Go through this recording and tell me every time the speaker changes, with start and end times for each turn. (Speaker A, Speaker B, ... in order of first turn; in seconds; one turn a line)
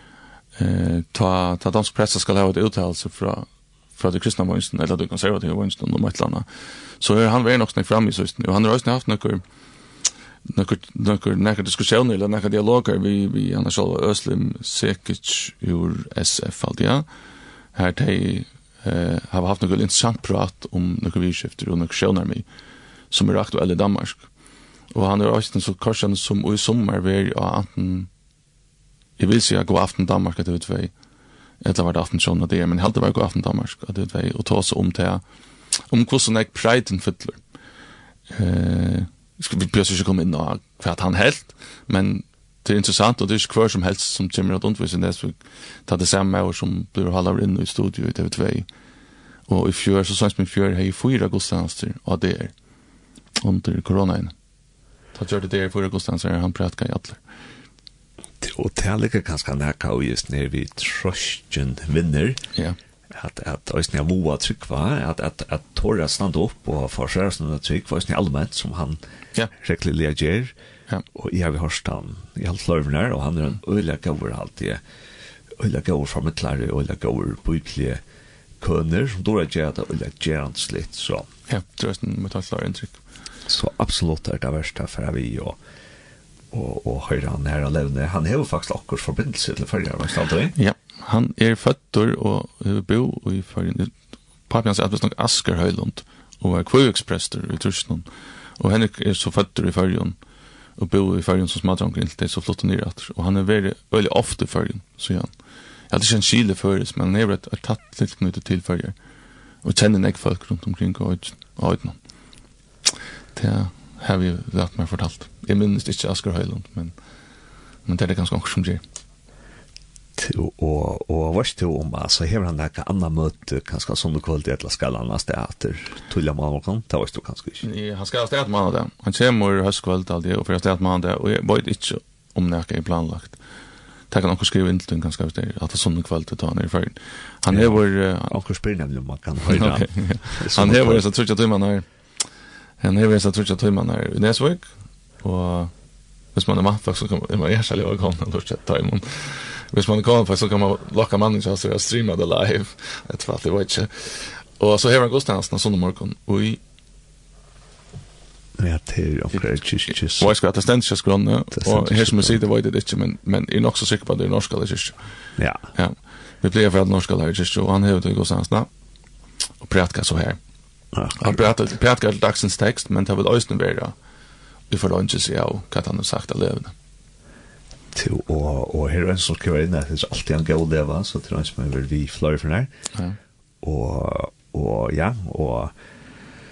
Speaker A: 0.6-6.5
Speaker A: 7.0-9.4
Speaker A: 10.5-17.1
Speaker A: 17.8-22.5
Speaker A: 23.1-24.3
Speaker A: 24.9-28.1
Speaker A: 29.2-30.9
Speaker A: 31.6-35.2
Speaker A: 35.9-37.4
Speaker A: 38.3-48.7
Speaker A: 49.5-52.5
Speaker A: 53.4-54.3
Speaker A: 55.1-57.2
Speaker B: 58.4-62.4
Speaker B: 63.1-69.0
Speaker B: 69.6-70.5
Speaker B: 71.1-74.8
Speaker B: 75.6-78.0
Speaker B: 78.6-81.3
Speaker A: 81.5-83.0
Speaker B: 83.5-85.6
Speaker B: 86.5-90.6
Speaker A: 90.5-93.9
Speaker A: 94.5-98.1
Speaker A: 98.6-100.2
Speaker A: 100.8-105.3
Speaker A: 105.9-109.0
Speaker A: 109.6-112.0
Speaker A: 113.4-117.0
Speaker A: 117.9-118.8
Speaker B: 120.2-127.6
Speaker A: 127.6-133.4
Speaker A: 134.1-138.3
Speaker B: 137.5-141.1
Speaker A: 139.5-141.8
Speaker A: 142.8-144.7
Speaker A: 145.2-145.7
Speaker A: 146.3-156.6
Speaker B: 158.6-160.3
Speaker A: 159.9-165.0
Speaker B: 161.5-162.4
Speaker B: 165.4-165.6
Speaker A: 165.8-168.7
Speaker A: 169.6-170.4
Speaker B: 170.9-171.5
Speaker A: 171.2-173.9
Speaker A: 174.7-176.7
Speaker B: 177.9-182.7
Speaker B: 183.6-185.7